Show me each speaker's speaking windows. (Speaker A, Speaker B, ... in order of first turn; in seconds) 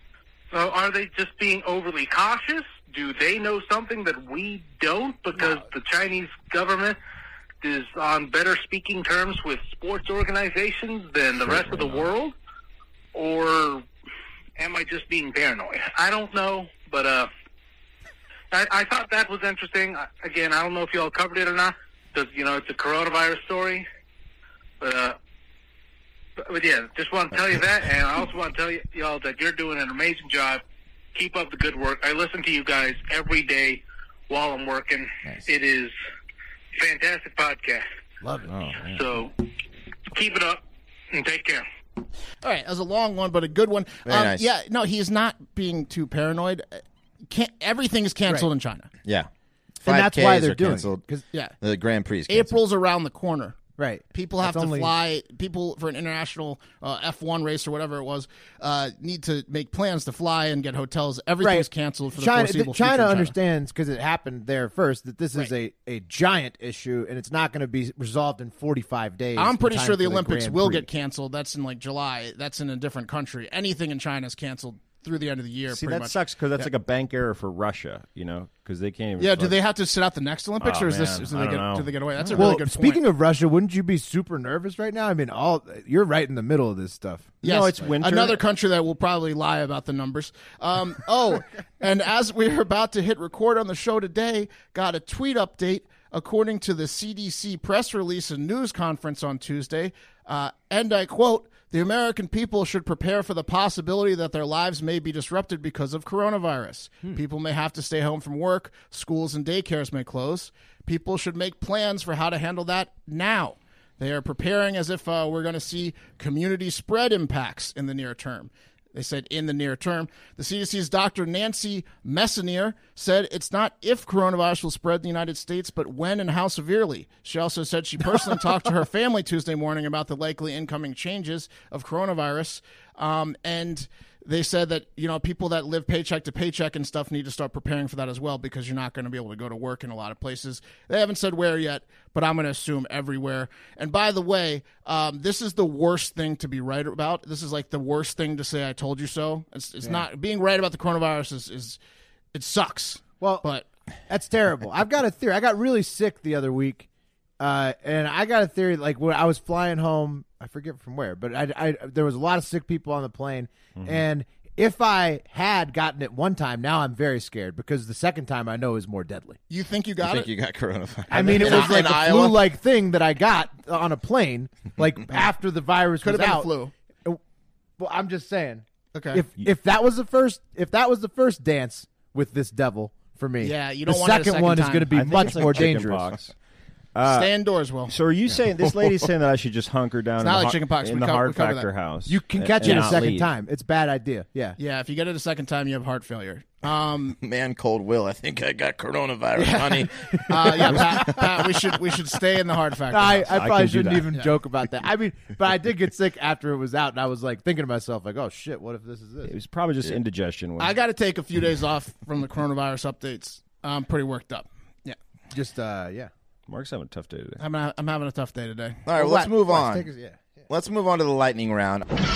Speaker A: 0.5-7.0, 7.6-12.3, 13.1-13.8, 14.6-17.3, 18.5-23.9, 24.8-25.2, 26.4-30.6, 31.1-35.9, 36.7-37.9, 38.9-39.4, 40.1-41.6
Speaker B: 11.4-12.1, 38.5-39.0, 75.7-79.6, 80.6-82.5, 87.4-88.4, 184.9-186.3, 186.9-187.3, 187.9-193.3, 203.3-204.1, 209.2-210.8, 216.5-217.4
Speaker C: 38.2-38.5, 49.9-51.2, 53.8-54.9, 61.4-70.9, 82.3-87.4, 154.1-156.9, 157.4-169.4, 171.1-176.5, 177.8-186.2, 192.1-194.6, 200.0-201.3, 202.9-209.3, 215.3-216.1, 218.9-220.5
Speaker D: 42.4-48.9, 52.3-53.6, 54.1-63.4, 69.4-76.7, 79.2-83.0, 87.4-151.8, 152.3-153.7, 169.5-170.3, 171.1-172.0, 176.0-176.7, 178.9-179.2, 183.4-185.2, 187.1-187.9, 190.2-191.7, 194.6-197.2, 199.4-203.3, 210.6-215.0, 217.4-218.8
Speaker E: 44.1-44.4, 49.8-51.0, 51.6-52.5, 170.0-172.4, 197.2-201.2, 218.9-219.9, 220.5-221.9